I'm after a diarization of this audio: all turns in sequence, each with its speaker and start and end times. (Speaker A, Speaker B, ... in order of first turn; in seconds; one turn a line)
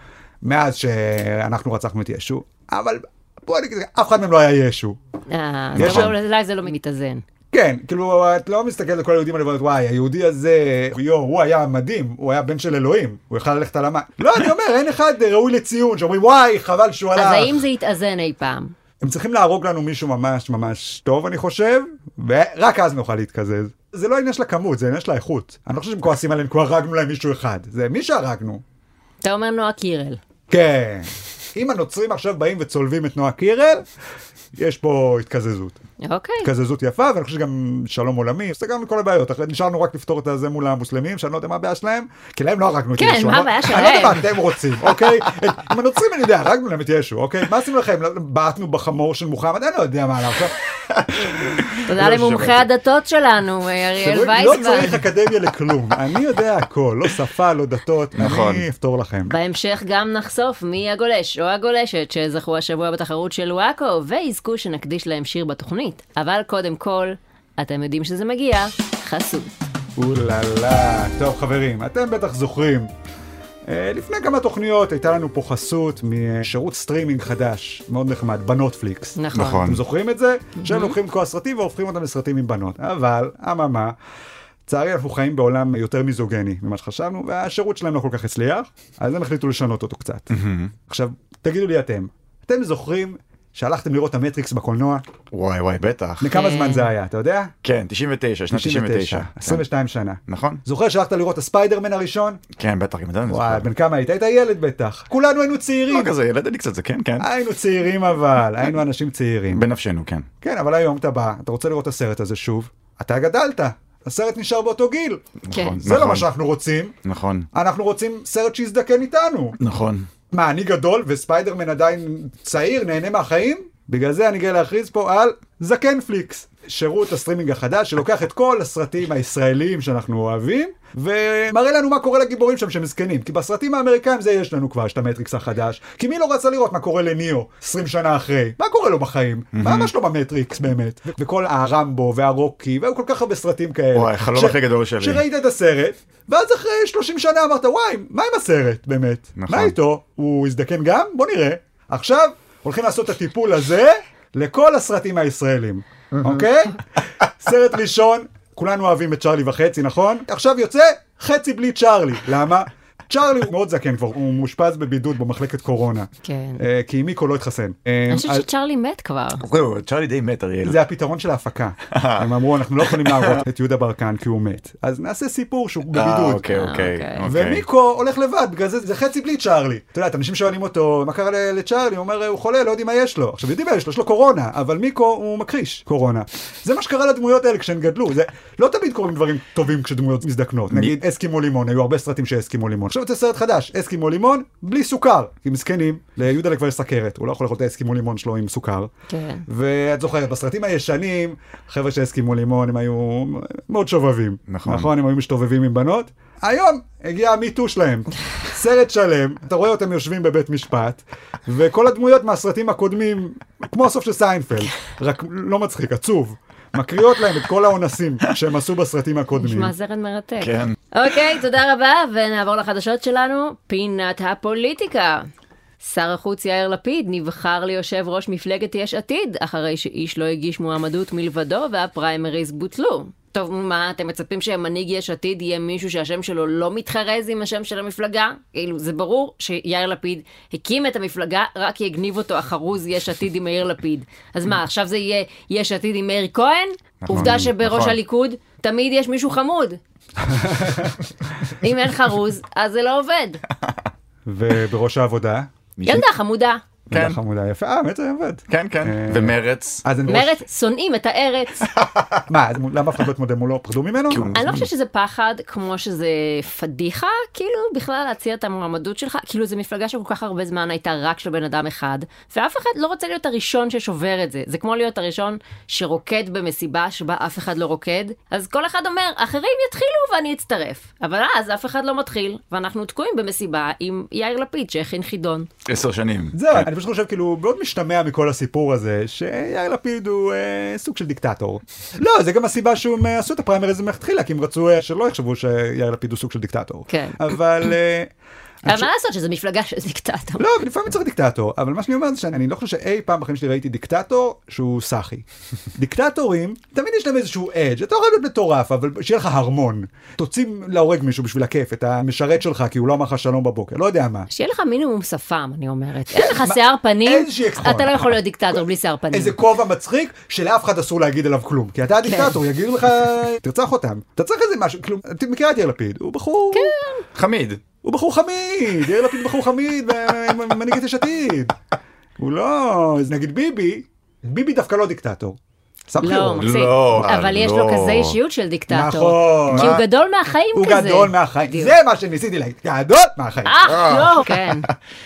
Speaker A: 0.4-5.0
Speaker B: 5.3-7.2
Speaker C: 5.8-6.1
Speaker A: 5.8-6.1
Speaker A: 7.5-17.6
Speaker B: 17.1-18.7
Speaker A: 19.0-28.6
Speaker B: 29.2-30.2
Speaker A: 30.5-33.8
Speaker A: 34.6-35.8
Speaker B: 36.0-36.5
Speaker A: 36.4-50.6
Speaker B: 43.0-44.2
Speaker A: 51.4-52.5
Speaker B: 51.8-55.0
Speaker C: 52.0-52.5
Speaker A: 54.0-59.3
Speaker C: 58.2-58.7
Speaker B: 59.3-69.6
Speaker A: 70.0-72.9
Speaker A: 73.7-83.9
Speaker B: 79.2-79.7
Speaker C: 79.3-79.8
Speaker B: 80.6-80.9
Speaker A: 84.7-90.3
Speaker C: 90.3-90.7
Speaker A: 90.9-95.0
Speaker C: 95.3-96.4
Speaker A: 96.2-97.5
Speaker B: 96.3-96.9
Speaker C: 97.6-99.6
Speaker A: 98.5-102.4
Speaker C: 100.3-100.6
Speaker C: 102.5-103.7
Speaker A: 103.3-106.1
Speaker C: 105.9-107.3
Speaker A: 107.2-109.7
Speaker C: 109.5-110.3
Speaker A: 110.4-115.2
Speaker C: 115.4-116.3
Speaker B: 115.5-115.8
Speaker A: 115.8-117.0
Speaker C: 117.0-117.5
Speaker A: 117.5-119.6
Speaker C: 119.6-120.1
Speaker A: 120.3-156.8
Speaker C: 139.6-139.9
Speaker C: 143.9-145.2
Speaker C: 149.4-149.7
Speaker C: 156.1-156.5
Speaker A: 157.4-168.4
Speaker B: 166.2-166.6
Speaker B: 168.1-169.4
Speaker C: 169.4-170.8
Speaker A: 170.7-176.4
Speaker C: 171.9-173.4
Speaker C: 175.9-177.7
Speaker B: 176.5-177.2
Speaker A: 177.2-198.9
Speaker C: 190.7-191.0
Speaker B: 199.1-199.4
Speaker A: 199.5-219.7
Speaker C: 204.5-204.9
Speaker B: 219.4-225.3
Speaker C: 220.4-220.8
Speaker B: 225.8-249.8
Speaker C: 247.0-248.0
Speaker A: 250.3-250.9
Speaker B: 251.6-253.4
Speaker A: 254.3-255.5
Speaker C: 255.8-256.1
Speaker B: 255.8-256.6
Speaker A: 256.9-260.4
Speaker C: 256.9-257.2
Speaker C: 258.5-259.8
Speaker B: 260.1-261.7
Speaker C: 261.8-262.2
Speaker A: 262.3-264.4
Speaker C: 264.1-264.7
Speaker B: 264.4-285.5
Speaker C: 285.7-286.7
Speaker A: 286.3-298.1
Speaker B: 296.9-297.3
Speaker B: 298.7-300.5
Speaker A: 300.4-314.3
Speaker B: 314.3-319.4
Speaker A: 316.1-318.1
Speaker A: 319.1-326.8
Speaker B: 322.0-322.4
Speaker B: 326.5-327.0
Speaker C: 327.1-327.6
Speaker A: 327.8-331.5
Speaker A: 332.2-335.4
Speaker A: 335.9-336.5
Speaker B: 336.0-341.7
Speaker C: 336.4-338.2
Speaker A: 338.7-339.8
Speaker C: 339.5-339.8
Speaker A: 340.6-343.7
Speaker B: 343.4-344.7
Speaker C: 343.7-344.7